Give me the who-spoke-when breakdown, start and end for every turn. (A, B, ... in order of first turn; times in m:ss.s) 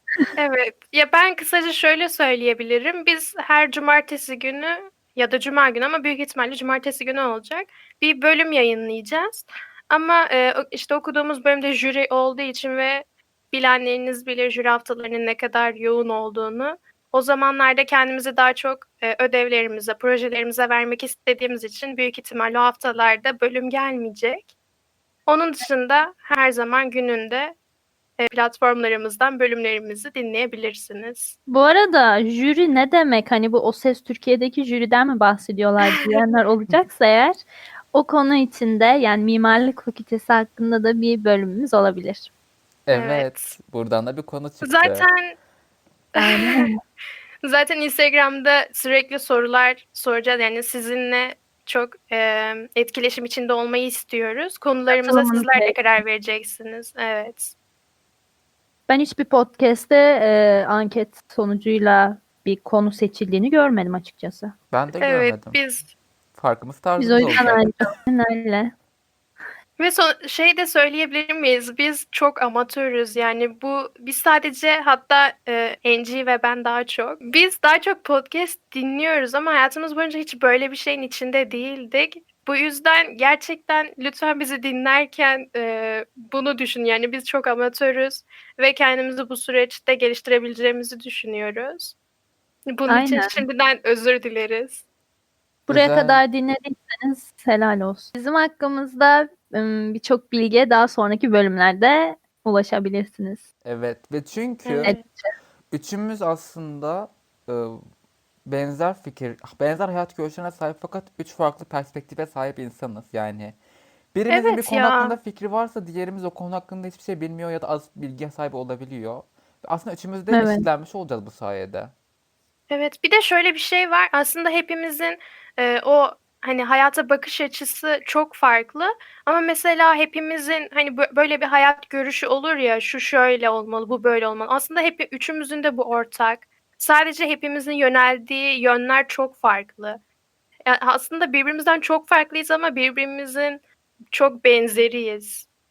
0:00.4-0:24.5 A
0:25.3-0:27.6 A
0:28.2-0:31.4 A
0:31.5-0:42.3 B
0:35.9-0:36.2 A
0:42.9-0:45.1 C
0:42.9-0:43.5 A
0:44.6-0:45.4 A
0:46.2-0:46.8 B
0:46.2-0:46.6 A
0:47.4-0:57.6 A
0:54.9-0:55.8 B
0:58.9-1:04.5 B
1:04.7-1:05.6 C
1:05.0-1:05.9 A
1:06.4-1:07.6 C
1:07.0-1:08.7 B
1:09.8-1:32.0 A
1:32.7-1:34.8 A
1:32.9-1:33.4 B
1:35.7-1:43.4 B
1:35.7-1:36.2 C
1:43.6-1:45.0 C
1:44.6-1:45.0 A
1:44.8-1:45.3 B
1:45.7-1:47.8 C
1:48.5-1:53.6 C
1:54.1-2:01.9 C
1:54.3-1:55.2 A
2:00.3-2:00.6 B
2:02.7-2:20.0 A
2:20.7-2:25.5 A